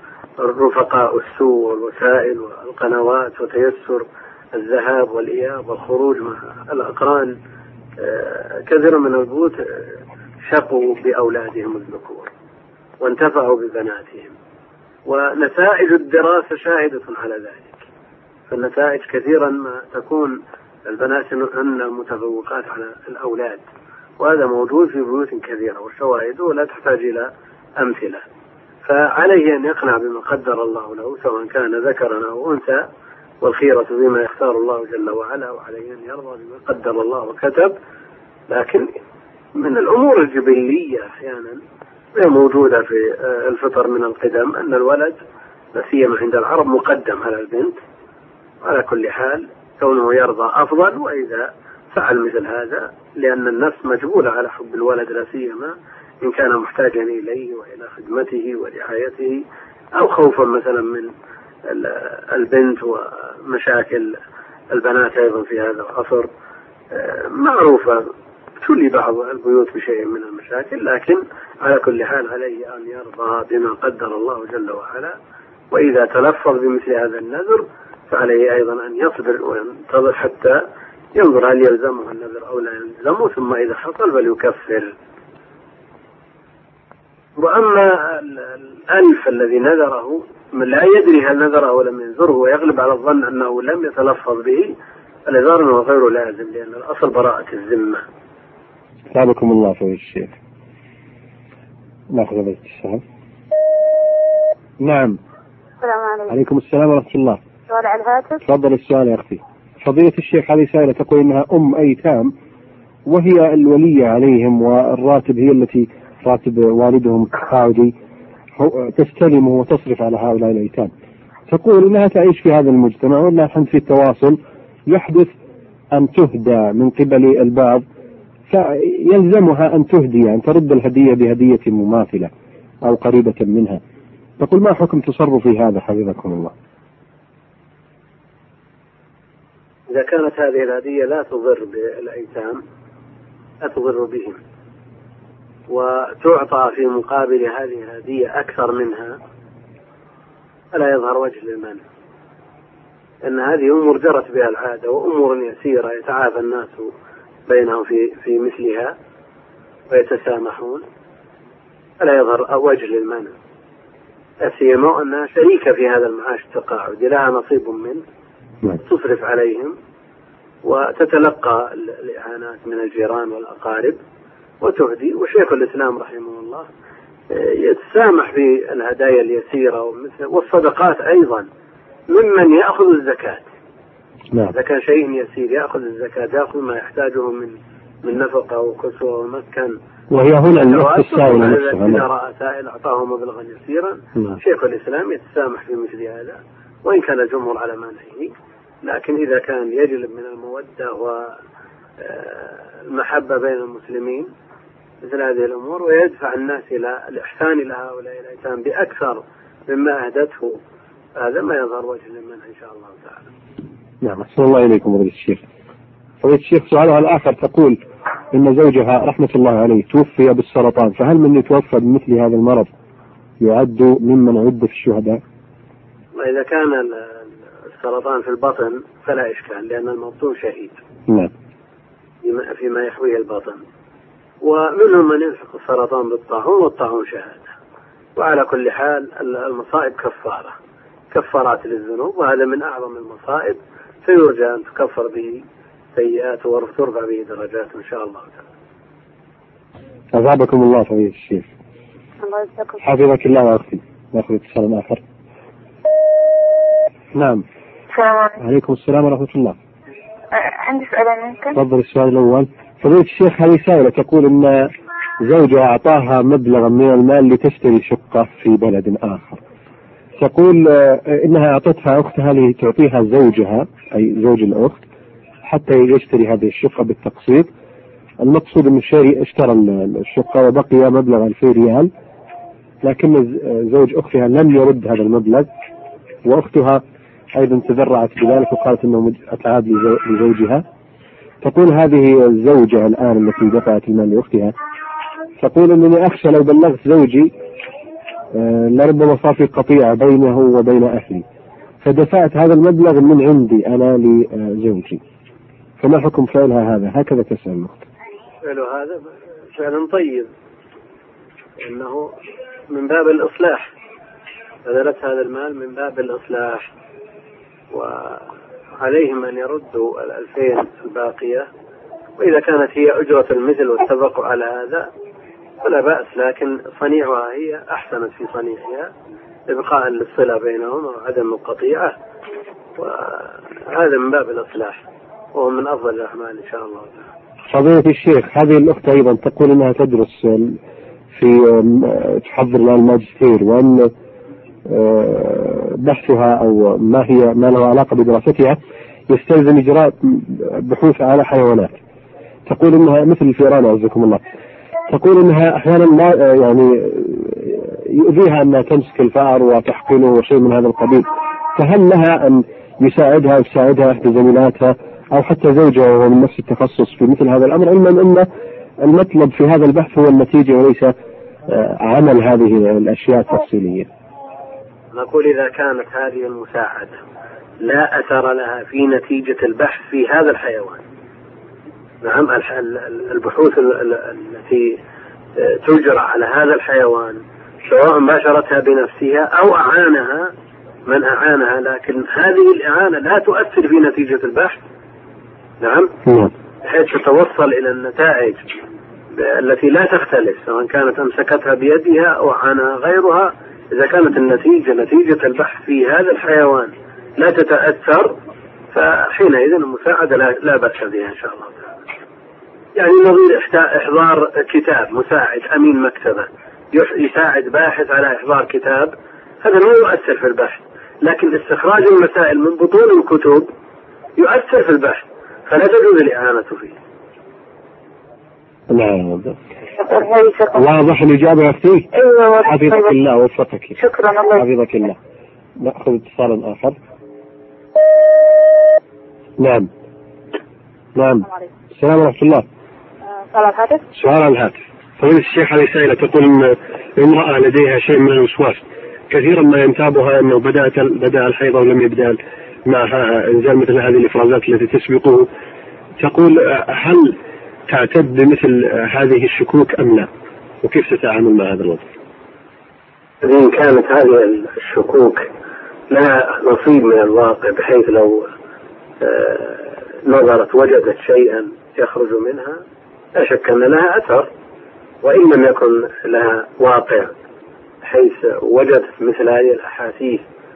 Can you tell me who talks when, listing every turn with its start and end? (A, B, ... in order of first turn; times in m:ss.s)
0:00.4-0:07.4 A
0:08.0-0:12.3 A
0:13.0-0:14.3 A
0:15.0-0:17.9 A
0:18.5-0:23.6 A
0:24.2-0:28.2 A
0:28.8-0:32.8 A
0:33.4-0:37.7 A
0:38.5-0:38.9 A
0:39.5-0:41.6 A
0:42.1-0:45.2 A
0:45.7-0:47.8 A
0:48.6-0:59.4 A
1:00.0-1:01.1 A
1:01.6-1:04.2 A
1:04.7-1:06.3 A
1:06.9-1:08.1 A
1:08.6-1:15.2 A
1:15.7-1:20.6 A
1:21.1-1:24.9 A
1:27.4-1:34.7 A
1:35.2-1:38.0 A
1:39.1-1:40.3 B
1:42.1-1:43.0 B
1:44.8-1:45.2 B
1:45.8-1:46.3 C
1:46.3-1:47.4 B
1:47.7-1:48.4 C
1:48.4-1:52.3 B
1:53.0-1:57.9 B
1:58.6-2:00.9 B
2:01.5-2:04.4 B
2:04.9-2:05.3 B
2:05.9-2:07.8 B
2:08.5-2:12.3 B
2:12.8-2:13.8 B
2:14.4-2:16.5 B
2:19.9-2:22.6 A
2:23.6-2:24.4 A
2:25.7-2:29.2 A
2:30.7-2:31.8 A
2:33.2-2:36.9 A
2:37.5-2:38.9 A
2:39.9-2:40.8 A
2:42.0-2:43.3 A
2:44.4-2:48.0 A
2:48.8-2:49.8 A
2:50.6-2:54.0 A
2:54.6-2:56.7 A
2:57.3-3:01.5 A
3:02.1-3:03.4 A
3:04.5-3:09.7 A
3:10.1-3:12.0 B
3:10.6-3:21.3 A
3:22.0-3:24.3 A
3:25.0-3:30.6 A
3:31.2-3:33.3 A
3:34.0-3:35.4 B
3:36.2-3:37.8 B
3:38.3-3:42.7 B
3:43.4-3:45.2 B
3:46.2-3:50.8 A
3:52.2-3:53.6 A
3:54.4-3:57.5 A
3:58.2-4:00.5 A
4:01.1-4:05.4 A
4:05.9-4:08.4 A
4:10.1-4:11.5 B
4:12.2-4:12.8 C
4:12.8-4:15.0 B
4:17.1-4:17.4 B
4:17.9-4:18.4 C
4:18.4-4:19.6 B
4:20.3-4:21.6 C
4:21.5-4:24.7 B
4:25.2-4:29.4 B
4:30.2-4:34.8 B
4:35.4-4:37.5 B
4:38.2-4:41.9 B
4:42.8-4:45.5 B
4:46.2-4:46.8 B
4:47.3-4:50.6 B
4:51.4-4:54.5 B
4:55.4-4:57.3 B
4:58.3-5:01.2 B
5:01.8-5:05.0 B
5:05.8-5:07.8 B
5:08.4-5:10.3 A
5:11.6-5:12.1 A
5:12.7-5:13.7 A
5:14.6-5:16.7 A
5:17.7-5:18.3 A
5:18.8-5:21.5 A
5:22.2-5:24.9 A
5:25.6-5:28.9 A
5:29.5-5:31.9 A
5:32.8-5:34.8 A
5:35.3-5:37.1 A
5:37.5-5:40.6 B
5:41.1-5:43.9 B
5:44.7-5:48.6 B
5:49.1-5:51.8 B
5:52.4-5:54.2 B
5:54.9-6:08.3 B
6:08.8-6:10.9 B
6:11.5-6:13.9 B
6:14.9-6:17.0 A
6:17.6-6:20.8 A
6:22.0-6:24.8 A
6:25.4-6:30.3 A
6:30.8-6:34.6 A
6:35.6-6:35.9 A
6:36.0-6:36.3 B
6:36.6-6:38.4 A
6:39.1-6:48.1 A
6:48.7-6:51.8 A
6:52.8-7:03.5 A
7:04.2-7:06.8 A
7:08.7-7:09.4 B
7:09.9-7:10.6 C
7:10.5-7:13.8 B
7:12.0-7:12.9 C
7:13.8-7:14.4 C
7:14.3-7:15.0 B
7:15.6-7:16.8 B
7:19.4-7:19.7 B
7:21.0-7:22.4 B
7:23.3-7:23.8 C
7:23.9-7:35.3 B
7:36.0-7:37.1 B
7:37.7-7:40.1 B
7:40.6-7:41.8 B
7:43.2-7:45.3 A
7:45.9-7:48.2 A
7:49.0-7:52.6 A
7:53.2-7:54.3 A
7:55.0-7:57.1 A
7:57.8-8:00.2 A